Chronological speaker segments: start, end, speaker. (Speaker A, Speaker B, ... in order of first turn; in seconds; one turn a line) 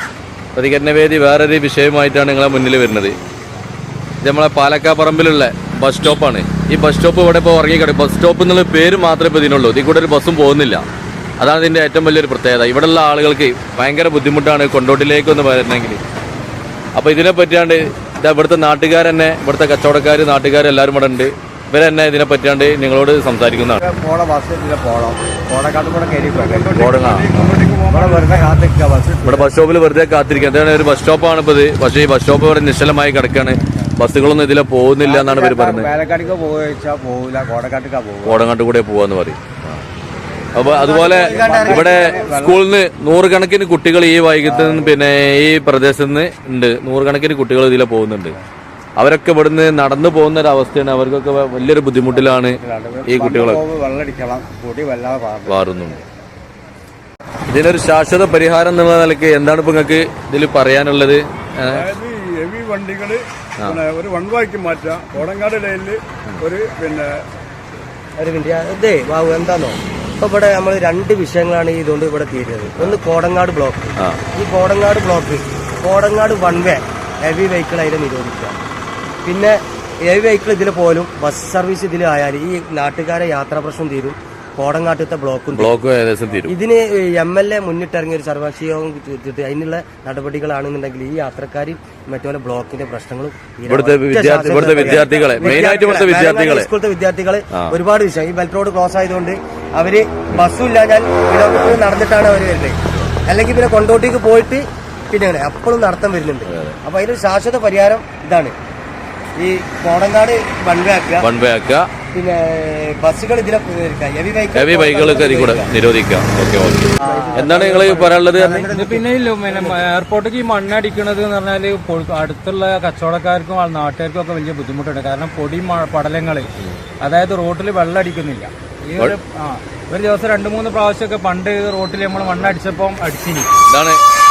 Speaker A: 0.5-3.1
Speaker A: 4.2-10.8
Speaker A: 11.4-16.0
Speaker A: 17.0-23.9
Speaker B: 23.8-26.8
Speaker C: 26.4-28.6
Speaker A: 26.8-27.4
Speaker B: 27.8-29.5
Speaker A: 29.2-36.0
Speaker B: 35.0-38.4
Speaker A: 38.2-39.8
Speaker A: 40.5-48.4
Speaker D: 40.7-42.3
Speaker B: 40.8-42.6
Speaker B: 44.5-45.0
Speaker A: 49.0-53.6
Speaker B: 52.2-55.5
Speaker A: 55.5-56.0
Speaker A: 57.5-61.9
Speaker C: 61.7-67.2
Speaker D: 68.2-78.6
Speaker A: 72.8-73.0
Speaker D: 79.2-85.7
Speaker A: 85.5-86.5
Speaker D: 86.5-108.5
Speaker A: 93.7-96.7
Speaker A: 97.5-97.8
Speaker A: 106.5-106.8
Speaker D: 109.4-111.3
Speaker A: 111.2-111.9
Speaker D: 112.1-115.7
Speaker A: 114.5-118.7
Speaker D: 117.0-119.8
Speaker E: 118.7-126.5
Speaker E: 127.0-133.5
Speaker A: 133.7-134.0